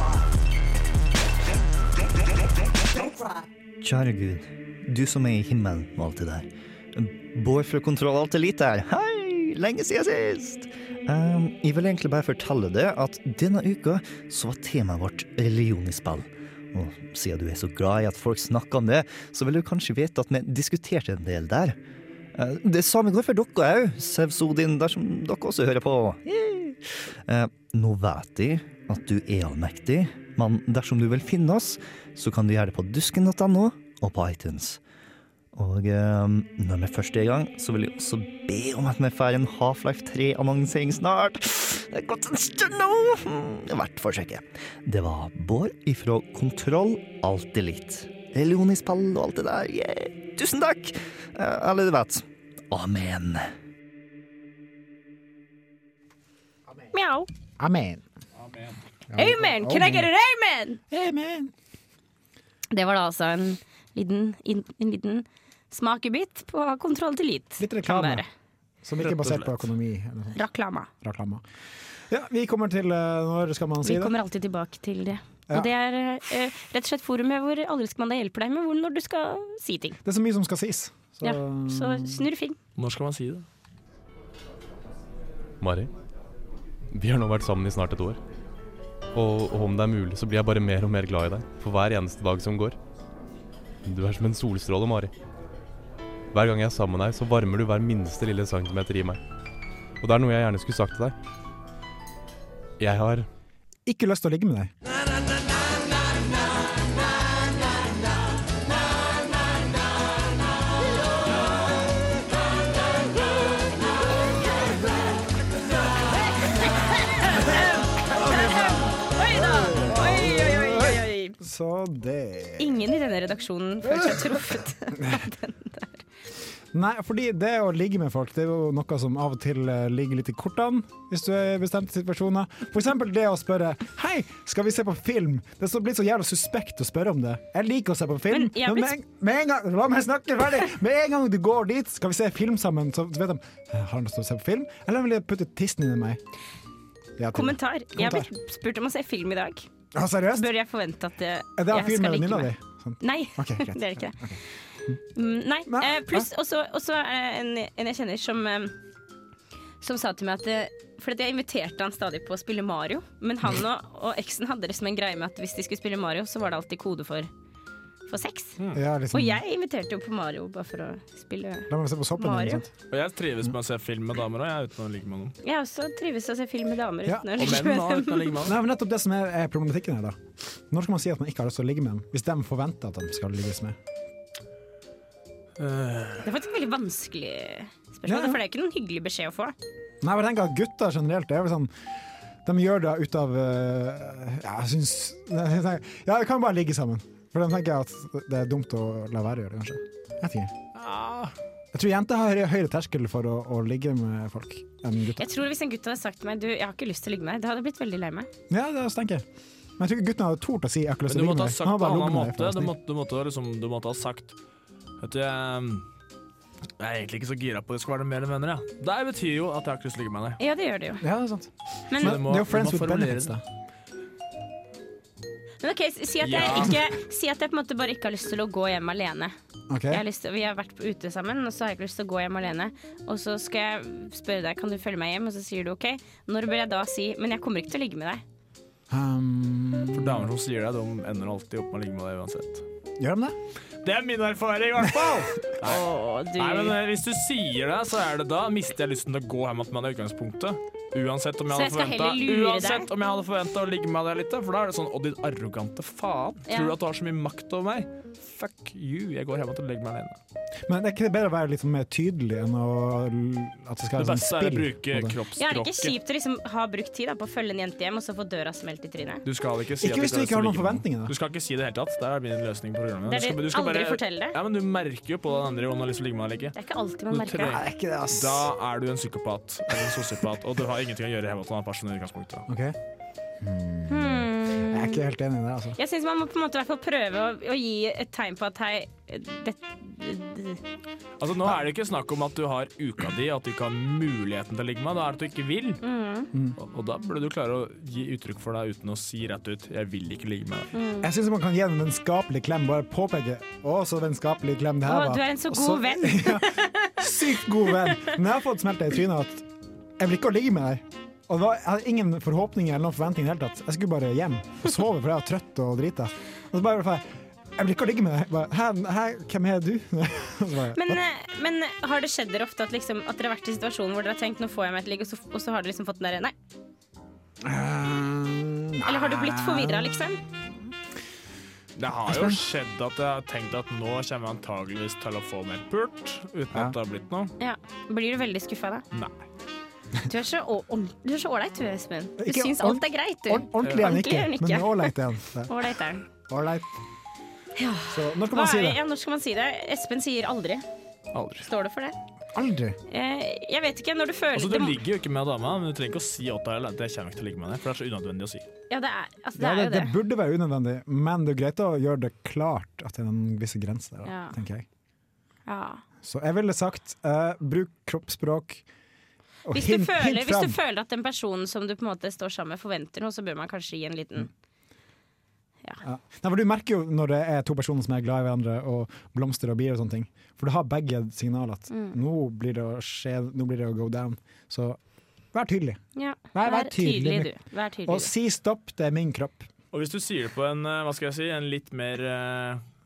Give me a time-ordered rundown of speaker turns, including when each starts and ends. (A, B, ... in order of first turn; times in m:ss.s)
0:03.8-0:21.8 A
0:22.4-0:34.8 A
0:35.5-0:53.5 A
0:56.9-0:57.3 B
0:57.6-0:58.0 C
0:58.4-0:58.8 D
0:59.1-1:00.1 C
0:59.2-1:00.8 B
1:00.9-1:01.5 C
1:02.7-1:08.3 B
1:07.6-1:08.2 C
1:08.8-1:10.4 C
1:09.0-1:09.6 D
1:10.3-1:10.9 B
1:11.0-1:11.4 C
1:12.1-1:14.1 C
1:13.8-1:20.0 B
1:20.0-1:22.3 C
1:21.2-1:22.6 B
1:22.8-1:23.4 D
1:25.6-1:25.9 E
1:26.9-1:28.2 E
1:29.1-1:32.8 E
1:33.8-1:35.1 E
1:36.3-1:39.2 E
1:40.0-1:41.1 E
1:42.8-1:43.3 E
1:43.8-1:44.7 C
1:57.2-2:01.4 B
1:58.1-1:58.9 C
1:59.5-2:02.8 C
2:02.6-2:06.0 B
2:03.9-2:04.3 C
2:06.7-2:26.2 C
2:18.3-2:18.9 B
2:27.2-2:28.3 C
2:27.3-2:29.7 B
2:29.9-2:30.5 C
2:30.3-2:34.2 B
2:31.6-2:34.4 C
2:35.1-2:38.7 B
2:35.7-2:36.3 C
2:39.8-2:47.3 B
2:48.1-2:48.6 B
2:48.7-2:49.4 C
2:49.1-2:52.6 B
2:51.7-2:52.7 C
2:52.9-2:55.3 D
2:55.4-2:58.4 B
2:57.0-2:57.5 C
2:57.4-2:58.6 D
2:58.4-3:00.2 C
3:00.7-3:03.8 C
3:05.6-3:06.3 D
3:06.2-3:09.5 B
3:08.1-3:08.4 C
3:10.0-3:11.7 C
3:12.4-3:20.5 C
3:20.7-3:21.3 D
3:21.7-3:25.3 C
3:25.2-3:28.3 B
3:28.5-3:29.2 C
3:29.8-3:32.7 C
3:31.1-3:34.4 D
3:35.0-3:35.8 D
3:36.8-3:40.4 D
3:40.4-3:41.0 B
3:41.0-3:43.4 C
3:41.9-3:42.2 B
3:42.0-3:43.4 D
3:45.6-3:49.3 B
3:46.2-3:46.8 D
3:49.7-3:50.0 C
3:49.9-3:58.2 B
3:58.9-4:00.3 C
3:59.9-4:02.6 D
4:03.0-4:03.4 C
4:03.8-4:20.2 D
4:04.8-4:05.2 C
4:05.6-4:06.8 B
4:11.5-4:12.9 B
4:16.5-4:16.7 B
4:20.7-4:25.2 C
4:24.0-4:26.0 D
4:25.4-4:29.2 B
4:29.2-4:36.5 D
4:29.8-4:31.1 C
4:33.1-4:34.4 B
4:36.5-4:37.6 B
4:37.1-4:42.4 D
4:37.4-4:38.5 C
4:42.5-4:42.8 C
4:43.4-4:45.8 C
4:43.9-4:45.0 B
4:45.8-4:50.6 B
4:51.2-4:55.8 D
4:55.8-4:56.3 B
4:56.6-5:00.7 D
5:00.7-5:01.1 B
5:01.0-5:09.5 C
5:04.8-5:07.0 B
5:10.0-5:21.0 C
5:20.7-5:26.3 B
5:27.4-5:30.5 C
5:28.8-5:30.2 B
5:31.8-5:37.3 D
5:32.1-5:32.4 C
5:37.4-5:38.8 B
5:40.0-5:44.9 B
5:42.2-5:45.5 C
5:45.5-5:46.0 B
5:46.3-5:46.7 C
5:47.6-5:50.6 B
5:47.9-5:48.8 C
5:51.1-5:51.5 D
5:51.4-5:52.0 B
5:52.3-5:52.8 C
5:52.9-5:54.8 B
5:54.3-5:58.4 D
5:58.7-5:59.9 B
5:59.4-6:04.6 C
6:04.0-6:04.4 B
6:05.5-6:05.8 B
6:06.0-6:08.6 C
6:09.4-6:10.6 C
6:09.5-6:14.3 B
6:15.8-6:24.8 C
6:21.7-6:22.0 B
6:25.3-6:25.8 C
6:26.0-6:28.1 B
6:26.3-6:27.3 C
6:27.8-6:29.5 C
6:29.7-6:32.6 D